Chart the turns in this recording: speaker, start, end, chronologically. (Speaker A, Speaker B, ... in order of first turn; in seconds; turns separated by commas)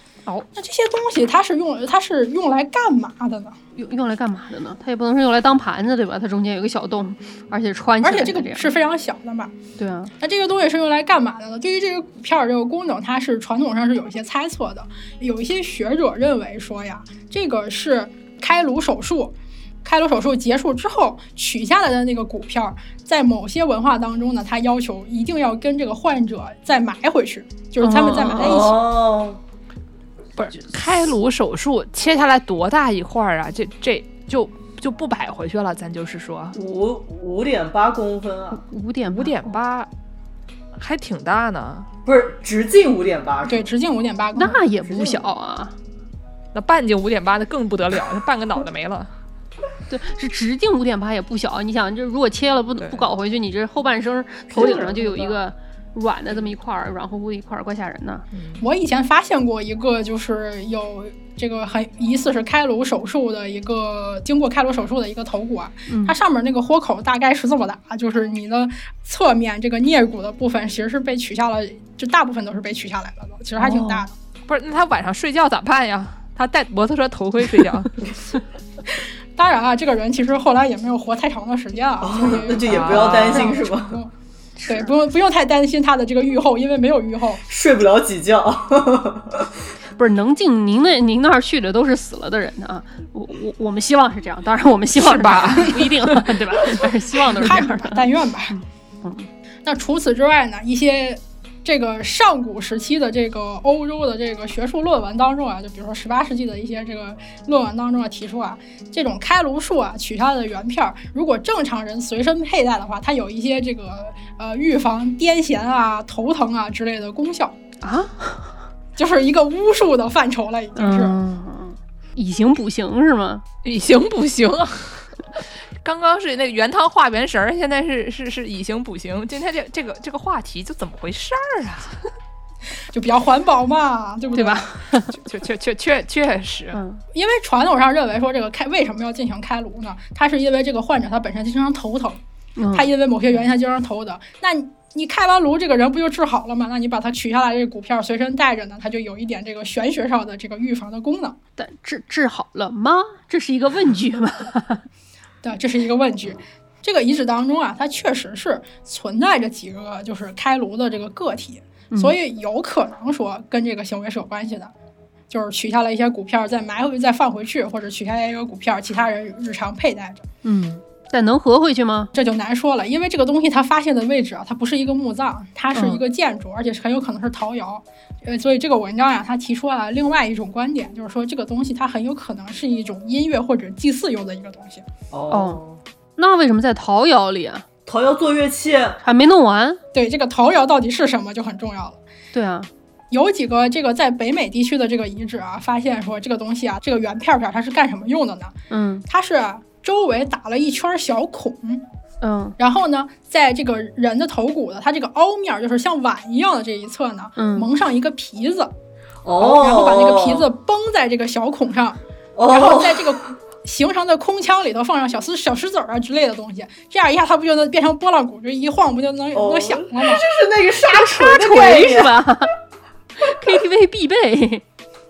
Speaker A: 0.5-3.6, Speaker B: 3.8-8.7, Speaker A: 8.0-9.5, Speaker B: 9.8-10.1, Speaker A: 10.2-28.8, Speaker B: 27.8-28.6, Speaker C: 28.4-29.4, Speaker D: 30.4-36.5, Speaker C: 36.5-38.6, Speaker B: 38.5-39.5, Speaker D: 39.1-39.9, Speaker D: 40.8-41.9, Speaker C: 42.0-43.7, Speaker A: 43.5-45.2, Speaker B: 44.3-45.7, Speaker D: 46.5-49.1, Speaker B: 49.9-58.2, Speaker D: 52.8-53.1, Speaker D: 54.5-55.4, Speaker D: 58.3-58.6, Speaker A: 58.6-74.1, Speaker B: 65.9-66.1, Speaker B: 73.6-74.0, Speaker D: 74.5-77.9, Speaker A: 79.3-84.1, Speaker C: 82.0-84.0, Speaker D: 82.6-83.4, Speaker B: 84.6-84.9, Speaker A: 84.7-87.4, Speaker C: 87.5-89.5, Speaker B: 90.0-99.3, Speaker D: 95.0-96.4, Speaker A: 97.4-98.5, Speaker A: 99.6-117.6, Speaker B: 117.8-118.5, Speaker A: 119.0-121.2, Speaker B: 120.8-123.4, Speaker D: 123.6-125.1, Speaker D: 125.8-132.0, Speaker A: 132.9-134.7, Speaker B: 134.3-135.2, Speaker D: 135.1-136.8, Speaker B: 136.7-137.0, Speaker A: 137.1-142.2, Speaker B: 142.6-142.9, Speaker A: 142.7-151.4, Speaker B: 151.6-154.8, Speaker A: 155.4-164.7, Speaker B: 161.9-162.2, Speaker A: 165.3-170.2, Speaker B: 170.4-172.1, Speaker A: 172.1-184.8, Speaker B: 175.7-176.0, Speaker C: 185.1-185.8, Speaker B: 185.3-185.6, Speaker B: 186.2-187.6, Speaker C: 187.8-189.0, Speaker B: 189.0-189.8, Speaker A: 189.9-192.0, Speaker B: 192.3-192.7, Speaker A: 193.1-198.5, Speaker B: 198.7-199.0, Speaker A: 199.1-201.8, Speaker B: 202.2-202.6, Speaker A: 202.6-208.7, Speaker B: 207.4-207.7, Speaker C: 209.2-210.5, Speaker A: 209.4-220.2, Speaker C: 212.3-213.3, Speaker C: 219.3-222.2, Speaker B: 220.8-222.5, Speaker B: 223.2-224.6